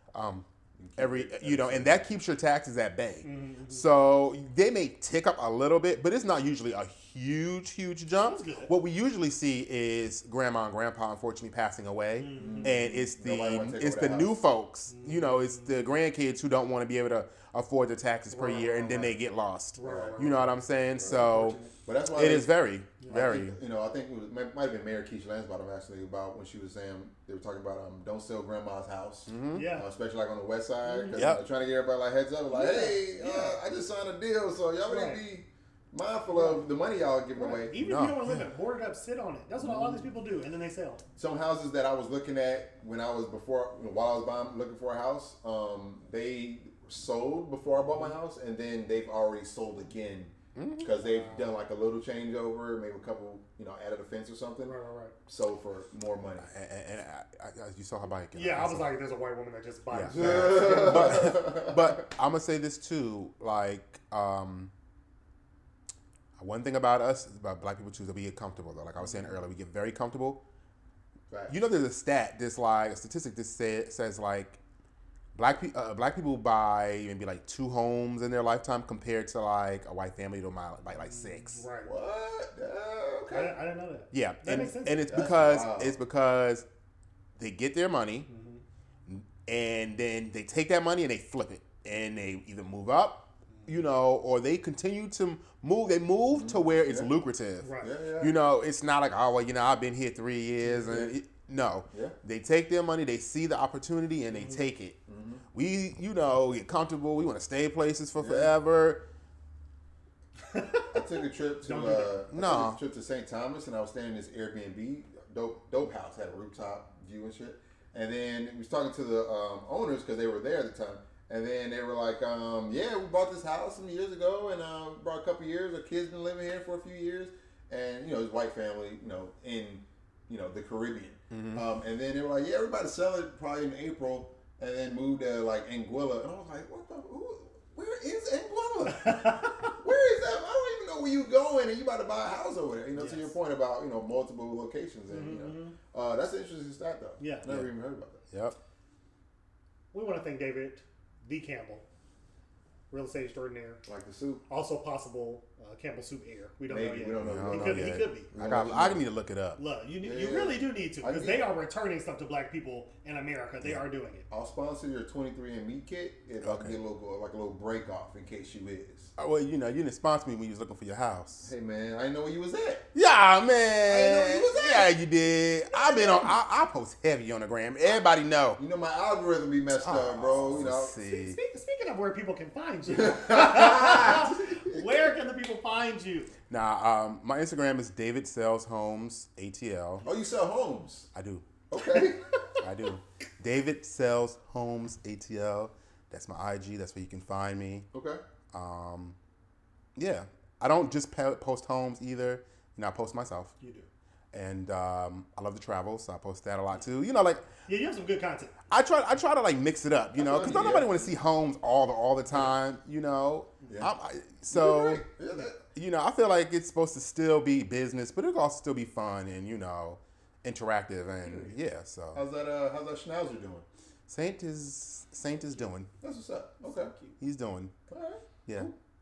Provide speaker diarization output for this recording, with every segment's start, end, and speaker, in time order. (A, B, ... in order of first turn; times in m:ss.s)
0:00.1-0:21.6 A
0:00.8-0:02.1 B
0:03.2-0:03.9 C
0:08.2-0:08.7 C
0:12.2-0:13.0 C
0:12.4-0:14.3 B
0:14.9-0:15.7 C
0:18.3-0:19.1 C
0:19.8-0:20.5 C
0:19.8-0:20.3 B
0:21.0-0:22.5 B
0:21.3-0:21.7 C
0:22.1-0:23.6 A
0:23.0-0:23.2 C
0:23.1-0:37.8 B
0:29.3-0:29.7 A
0:29.5-0:29.9 C
0:30.8-0:31.2 C
0:31.1-0:31.4 A
0:32.5-0:33.6 C
0:34.9-0:35.2 C
0:36.3-0:36.6 C
0:37.4-0:41.0 C
0:37.8-0:38.4 A
0:39.6-0:40.1 B
0:41.2-0:56.5 B
0:50.6-0:50.9 A
0:51.0-0:51.5 C
0:54.6-0:55.1 C
0:56.4-0:58.9 A
0:58.3-1:01.2 C
0:59.9-1:04.7 A
1:00.1-1:02.0 B
1:06.4-1:10.4 A
1:09.0-1:09.3 B
1:11.3-1:11.5 B
1:11.5-1:14.6 A
1:15.3-1:21.6 A
1:21.1-1:21.9 C
1:21.8-1:23.6 B
1:23.3-1:25.0 C
1:24.1-1:26.6 A
1:25.1-1:26.0 B
1:27.4-1:28.3 A
1:28.3-1:28.6 C
1:29.0-1:45.0 A
1:33.5-1:33.8 C
1:36.3-1:37.1 B
1:37.6-1:37.9 C
1:37.8-1:38.3 B
1:40.8-1:41.1 B
1:44.3-1:44.6 C
1:45.1-1:45.4 B
1:45.5-1:49.0 A
1:48.2-1:48.5 B
1:50.4-1:52.1 C
1:50.9-2:28.2 B
1:52.3-1:52.8 A
2:11.3-2:11.6 A
2:18.9-2:19.7 C
2:23.0-2:23.3 C
2:25.1-2:25.8 C
2:27.2-2:27.5 C
2:27.4-2:27.7 A
2:29.9-2:31.8 C
2:32.9-2:33.8 C
2:33.8-2:34.4 B
2:34.5-2:38.3 C
2:36.7-2:39.0 B
2:37.2-2:39.6 A
2:39.6-2:44.3 C
2:40.0-2:41.4 B
2:44.3-2:49.1 B
2:46.4-2:46.8 A
2:49.2-2:51.5 A
2:51.4-2:52.8 B
2:52.9-2:58.6 A
2:53.8-2:54.9 B
2:55.7-2:56.3 C
2:58.6-3:00.9 B
2:59.7-3:01.4 A
3:01.0-3:06.3 C
3:02.9-3:05.0 B
3:06.5-3:10.0 A
3:10.0-3:11.1 B
3:11.1-3:11.5 A
3:11.7-3:12.2 B
3:12.6-3:17.9 A
3:17.9-3:18.2 B
3:18.5-3:19.2 A
3:20.0-3:23.6 A
3:23.6-3:23.9 C
3:24.3-3:27.4 A
3:27.7-3:28.5 C
3:28.7-3:42.2 A
3:30.2-3:31.1 B
3:34.5-3:35.6 B
3:41.2-3:41.5 B
3:42.1-3:43.6 B
3:44.1-3:45.9 A
3:46.0-3:46.9 B
3:46.6-3:47.2 C
3:47.2-3:47.8 A
3:47.9-3:48.7 B
3:48.4-3:48.7 A